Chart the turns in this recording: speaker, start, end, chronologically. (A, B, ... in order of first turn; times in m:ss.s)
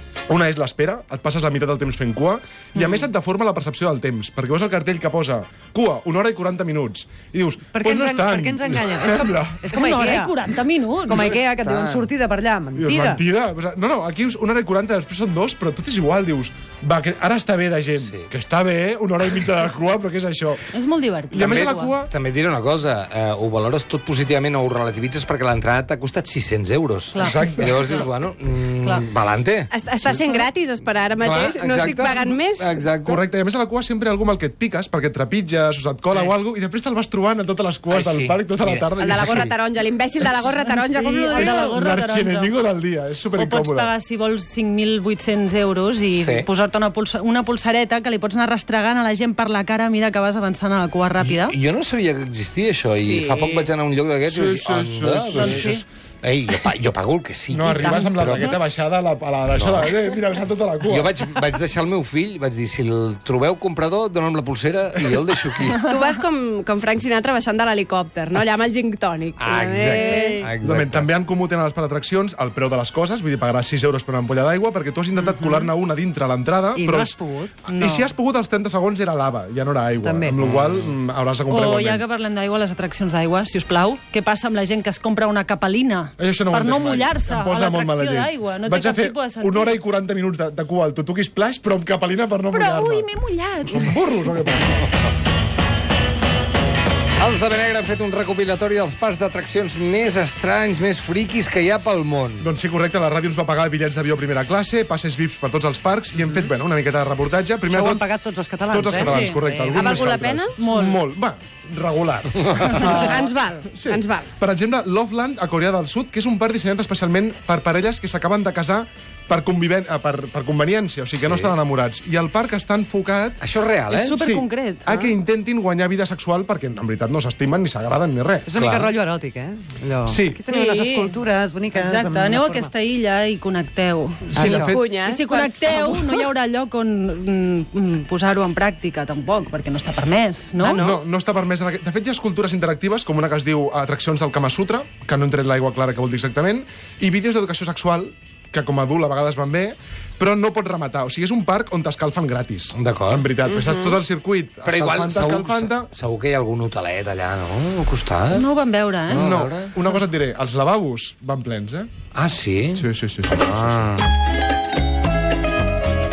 0:00.3-0:09.6 A
0:07.7-0:10.4 B
0:09.7-0:11.3 C
0:11.1-0:13.2 B
0:11.2-0:12.1 D
0:12.8-0:20.6 A
0:20.7-0:21.9 C
0:21.3-0:22.1 A
0:21.4-0:29.7 D
0:27.1-0:28.0 C
0:27.2-0:28.0 A
0:29.7-0:32.8 E
0:31.2-0:33.2 D
0:33.0-0:39.5 A
0:37.9-0:39.5 D
0:39.0-0:41.8 E
0:40.7-0:42.5 C
0:41.3-0:43.9 A
0:43.4-0:51.6 C
0:46.1-0:46.5 D
0:51.2-0:58.6 D
0:53.0-0:53.7 E
0:54.3-0:55.7 A
0:55.3-0:55.8 C
0:57.5-1:01.1 A
0:57.7-0:58.6 C
0:59.5-1:00.1 D
1:00.9-1:05.9 D
1:05.9-1:10.4 E
1:09.4-1:11.1 D
1:09.7-1:10.5 C
1:10.6-1:17.2 A
1:16.7-1:17.6 B
1:17.7-1:18.1 C
1:17.7-1:22.0 A
1:20.0-1:20.4 B
1:20.4-1:21.0 D
1:21.5-1:29.7 C
1:26.2-1:33.1 A
1:32.5-1:34.0 C
1:33.7-1:34.9 A
1:37.2-1:42.5 D
1:42.4-1:48.0 A
1:47.7-1:49.9 B
1:48.7-2:03.4 A
1:49.0-1:49.4 C
1:49.7-1:50.6 E
1:50.6-1:51.0 C
1:52.6-1:54.3 E
1:52.7-1:53.0 C
2:01.2-2:01.5 D
2:03.4-2:04.2 D
2:03.9-2:05.1 C
2:04.2-2:08.5 A
2:08.5-2:12.7 B
2:08.5-2:09.0 D
2:10.1-2:10.4 D
2:10.5-2:11.2 C
2:11.8-2:20.8 C
2:14.3-2:14.8 A
2:14.3-2:14.7 B
2:14.5-2:15.7 E
2:15.7-2:16.0 B
2:20.6-2:21.0 E
2:20.7-2:35.9 A
2:32.8-2:33.3 D
2:33.5-2:34.0 E
2:34.7-2:38.4 D
2:38.3-2:39.3 C
2:39.1-2:39.7 D
2:39.1-2:41.9 A
2:42.1-2:42.8 D
2:42.7-2:43.8 A
2:43.4-2:44.1 D